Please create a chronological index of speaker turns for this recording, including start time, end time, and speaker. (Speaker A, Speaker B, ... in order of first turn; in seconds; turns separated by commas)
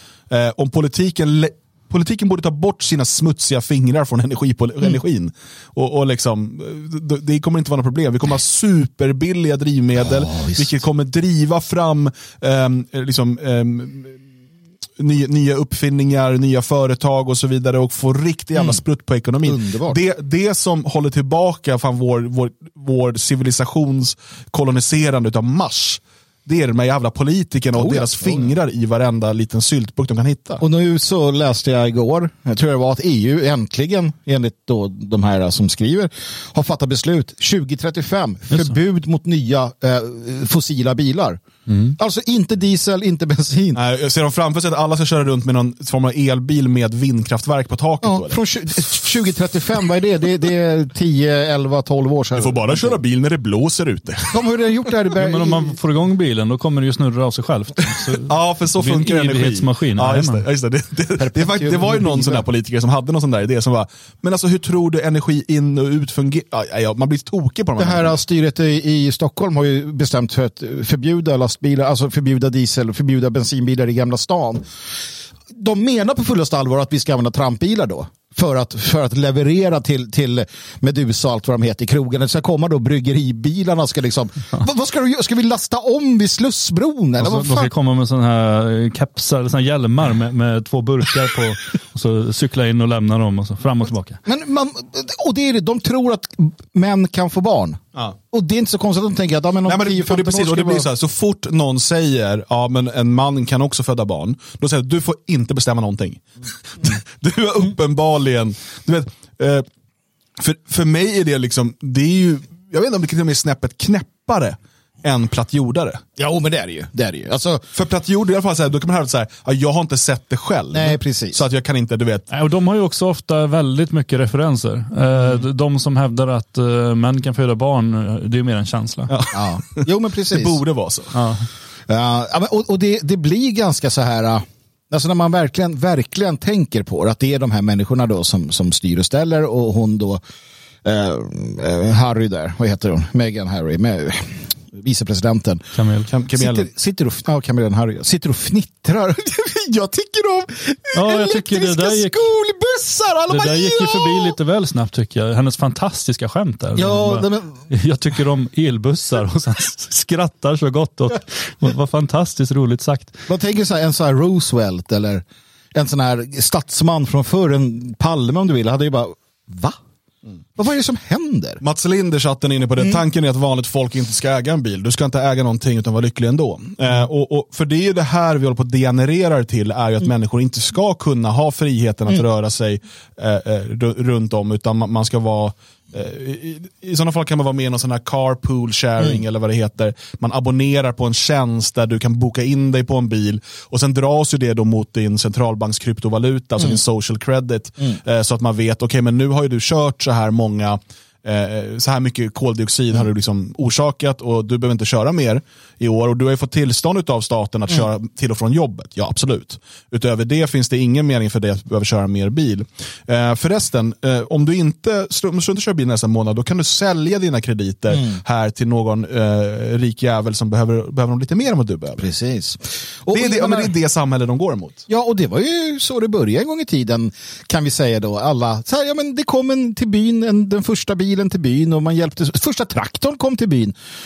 Speaker A: 0.3-14.2, Speaker B: 10.0-10.8, Speaker A: 15.0-30.6, Speaker B: 18.5-18.8, Speaker B: 19.4-20.0, Speaker B: 27.7-28.5, Speaker B: 30.6-41.4, Speaker C: 41.7-41.9, Speaker B: 42.0-43.8, Speaker A: 43.7-48.9, Speaker B: 48.0-53.0, Speaker A: 52.4-54.4, Speaker B: 54.3-55.8, Speaker C: 55.2-60.4, Speaker A: 58.2-68.2, Speaker B: 61.2-62.5, Speaker B: 67.8-74.6, Speaker B: 75.5-87.7, Speaker C: 87.2-94.2, Speaker B: 94.2-100.9, Speaker A: 99.7-106.2, Speaker A: 106.8-109.7, Speaker A: 110.4-116.0, Speaker B: 116.2-117.6, Speaker A: 117.7-122.3, Speaker B: 120.7-121.4, Speaker C: 122.3-129.1, Speaker A: 129.1-131.1, Speaker B: 129.3-130.6, Speaker C: 131.1-131.5, Speaker B: 131.9-140.2, Speaker B: 140.8-145.6, Speaker C: 145.8-146.1, Speaker A: 146.1-146.7, Speaker B: 146.3-154.3, Speaker C: 150.9-152.2, Speaker C: 153.3-163.2, Speaker B: 156.7-157.6, Speaker B: 163.3-169.8, Speaker B: 170.6-171.6, Speaker A: 171.6-222.0, Speaker B: 217.9-218.2, Speaker B: 222.0-223.7, Speaker A: 223.1-224.8, Speaker B: 224.9-233.8